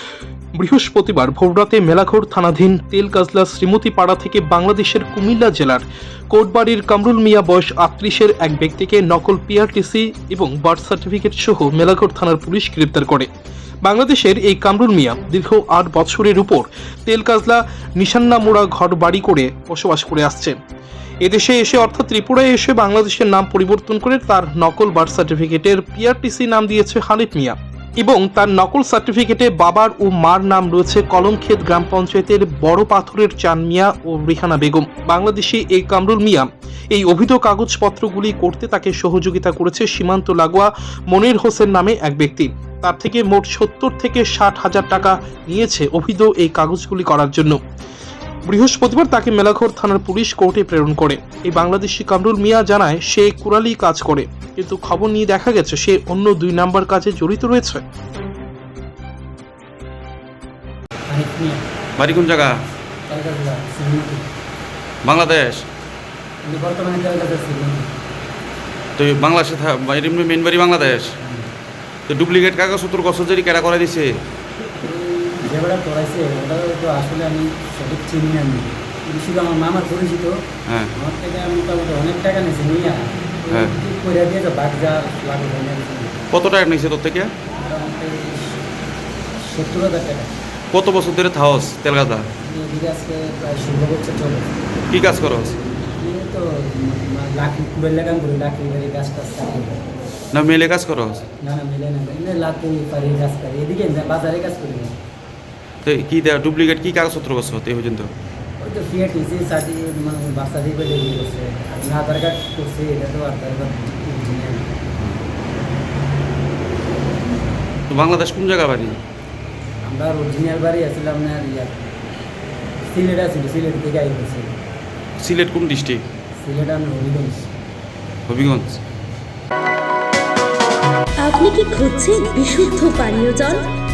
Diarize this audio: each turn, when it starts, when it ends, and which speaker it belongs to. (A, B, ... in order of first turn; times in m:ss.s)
0:00.6-0:13.3 A
0:13.8-0:20.6 A
0:21.2-0:47.6 A
0:48.4-0:57.8 A
1:01.1-1:01.6 B
1:02.0-1:02.5 C
1:03.1-1:04.2 B
1:05.0-1:05.6 C
1:06.4-1:07.9 B
1:09.0-1:11.1 C
1:11.2-1:11.5 B
1:12.1-1:14.2 C
1:14.8-1:20.4 B
1:20.9-1:26.2 B
1:26.3-1:27.3 C
1:27.5-1:28.6 B
1:29.4-1:30.3 B
1:30.7-1:32.2 C
1:32.4-1:34.5 B
1:34.9-1:35.6 C
1:35.9-1:39.8 B
1:40.3-1:41.2 C
1:41.4-1:45.0 B
1:45.8-1:48.1 C
1:48.6-1:54.7 B
1:57.9-1:59.0 C
1:59.8-2:01.9 B
2:02.8-2:04.5 B
2:05.2-2:06.0 C
2:06.4-2:07.5 B
2:08.3-2:08.8 C
2:11.2-2:13.6 D